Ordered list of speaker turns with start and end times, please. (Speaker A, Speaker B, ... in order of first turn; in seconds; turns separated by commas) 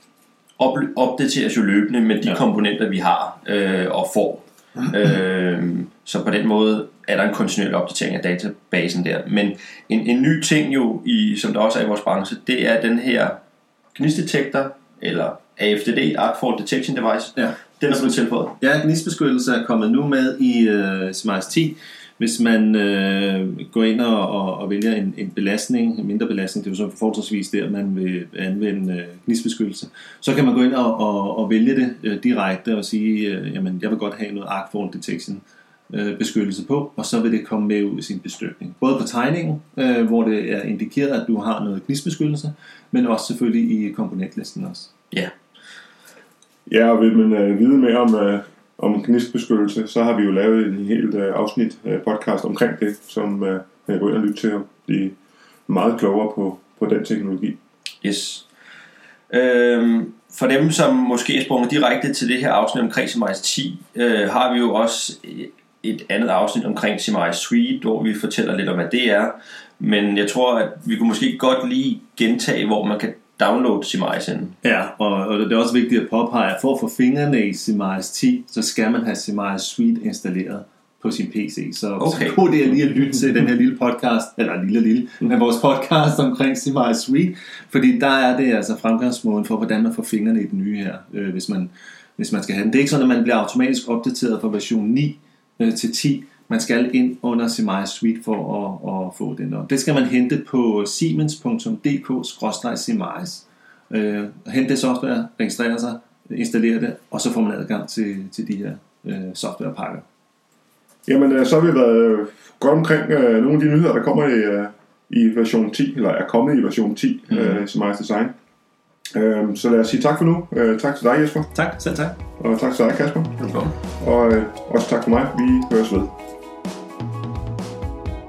Speaker A: 0.6-13.4, Speaker A: 13.9-18.6, Speaker B: 17.3-44.9, Speaker C: 46.7-55.1, Speaker C: 55.7-57.6, Speaker A: 58.0-58.4, Speaker A: 59.3-74.5, Speaker B: 74.6-110.0, Speaker A: 82.0-82.4, Speaker C: 111.1-118.3, Speaker C: 119.1-121.5, Speaker B: 121.5-122.2, Speaker C: 122.4-123.4, Speaker A: 123.4-123.8, Speaker C: 124.0-126.1